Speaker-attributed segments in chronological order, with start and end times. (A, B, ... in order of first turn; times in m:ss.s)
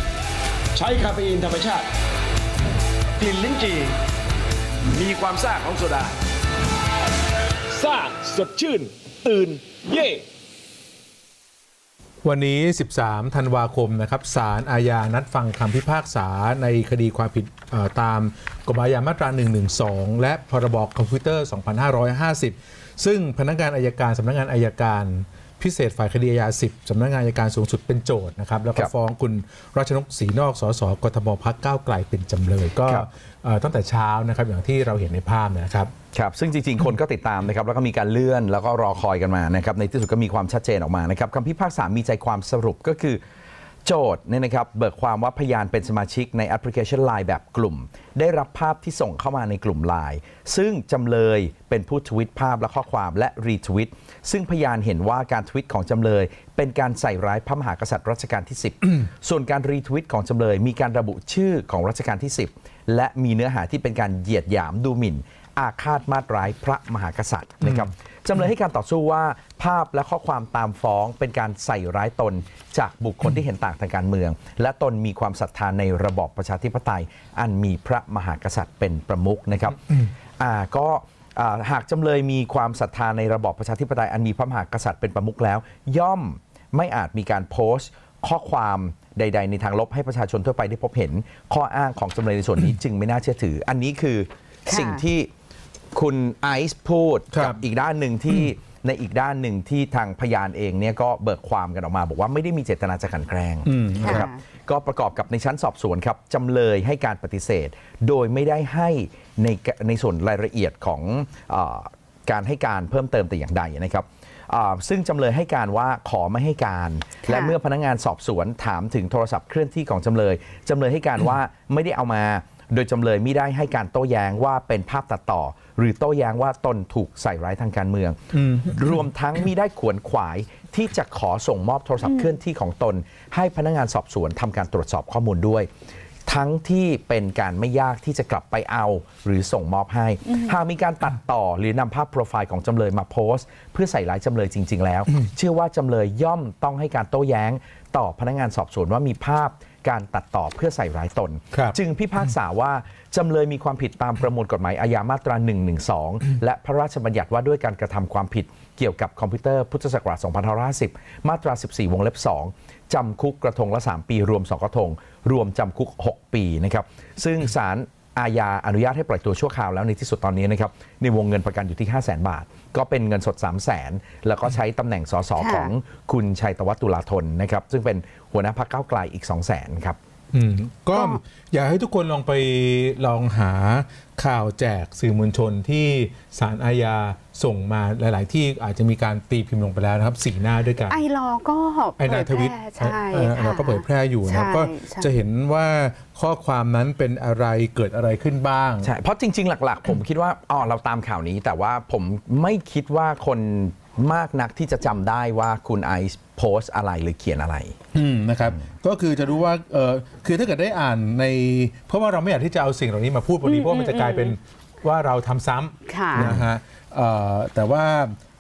0:00.8-0:01.9 A
0:03.2-0:04.0 A
0:04.9-0:06.2 A
0:07.7-0:10.2 A
0:12.2-0:35.9 B
0:36.1-0:43.2 C
0:43.8-1:35.3 C
1:34.7-1:35.0 D
1:35.9-2:15.7 C
1:37.3-1:37.6 B
1:43.7-1:44.3 B
1:44.0-1:44.4 D
1:57.2-1:57.6 D
2:08.3-2:09.0 B
2:12.0-2:12.4 D
2:16.3-3:00.0 C
2:20.3-2:20.6 D
2:55.4-2:55.7 D
3:00.3-3:11.0 B
3:00.9-3:01.2 D
3:10.9-3:15.1 D
3:12.0-3:18.9 B
3:18.8-3:27.8 C
3:27.9-3:38.2 B
3:33.4-3:34.4 D
3:35.9-3:36.4 D
3:36.2-3:36.5 C